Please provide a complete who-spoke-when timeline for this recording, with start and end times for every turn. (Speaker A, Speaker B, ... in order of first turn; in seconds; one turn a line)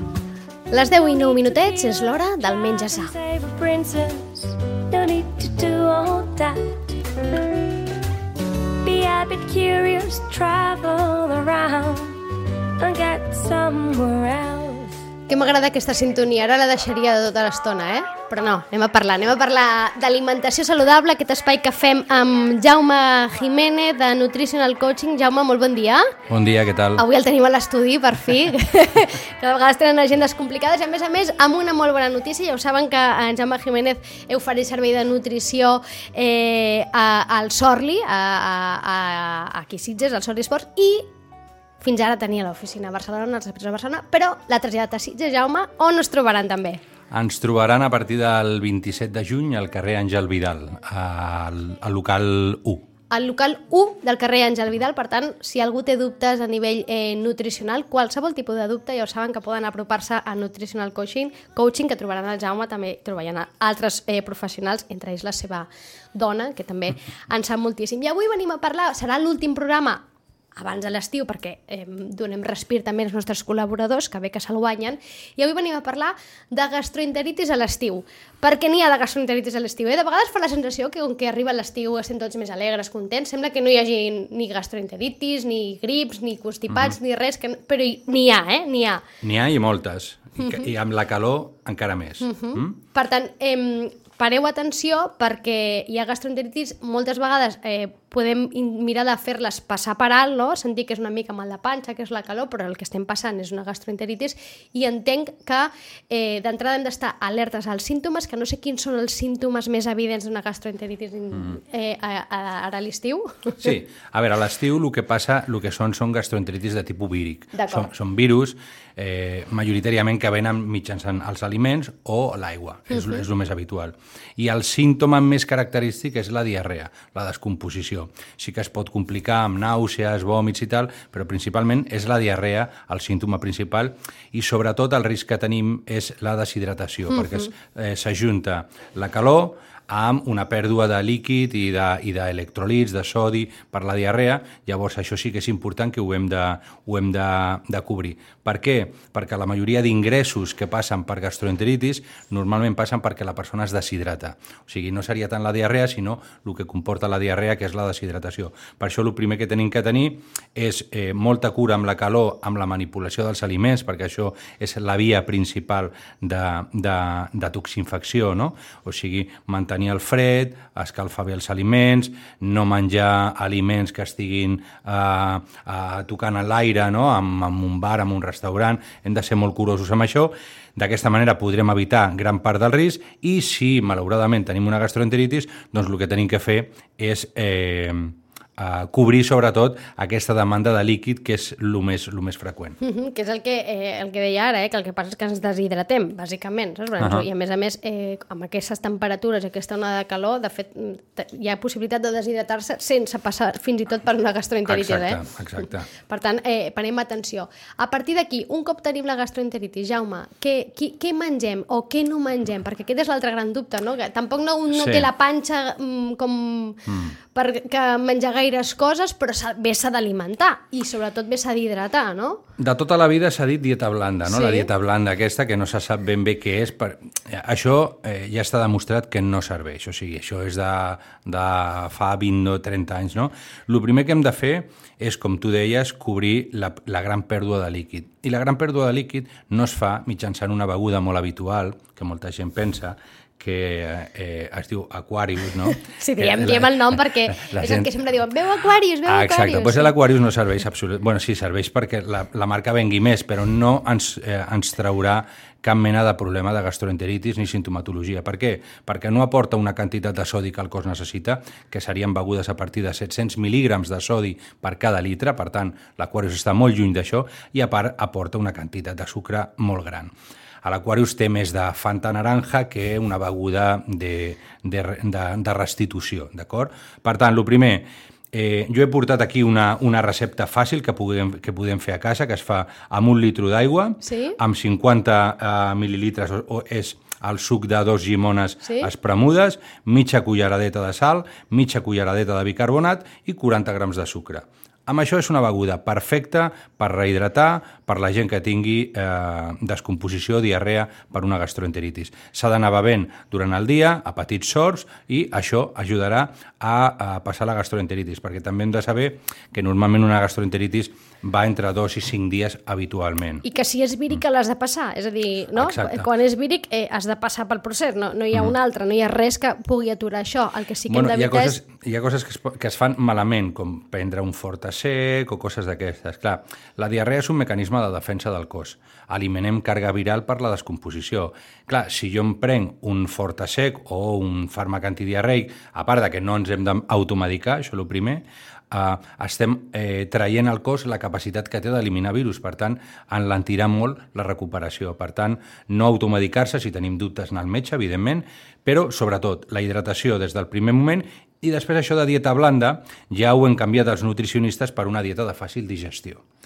Speaker A: 0.7-3.1
Speaker B: 1.6-7.0
Speaker B: 8.8-12.2
Speaker B: 12.8-15.0
Speaker A: 15.3-26.1
Speaker C: 26.3-27.0
Speaker A: 26.9-41.1
Speaker A: 41.8-46.8
Speaker C: 47.1-52.8
Speaker A: 53.1-70.0
Speaker A: 70.5-89.0
Speaker C: 86.7-86.9
Speaker C: 89.2-92.8
Speaker A: 92.2-113.7
Speaker C: 113.6-192.8
Speaker A: 117.5-117.9
Speaker A: 122.9-123.2
Speaker A: 137.1-137.5
Speaker A: 192.8-222.4
Speaker C: 197.0-197.3
Speaker C: 204.7-205.9
Speaker C: 214.7-215.1
Speaker C: 216.9-217.2
Speaker C: 222.6-247.9
Speaker A: 224.2-224.7
Speaker A: 245.8-249.9
Speaker C: 249.0-270.1
Speaker C: 270.6-313.4
Speaker A: 284.1-284.4
Speaker A: 288.6-288.9
Speaker A: 313.4-321.6
Speaker C: 315.6-316.1
Speaker C: 320.9-356.2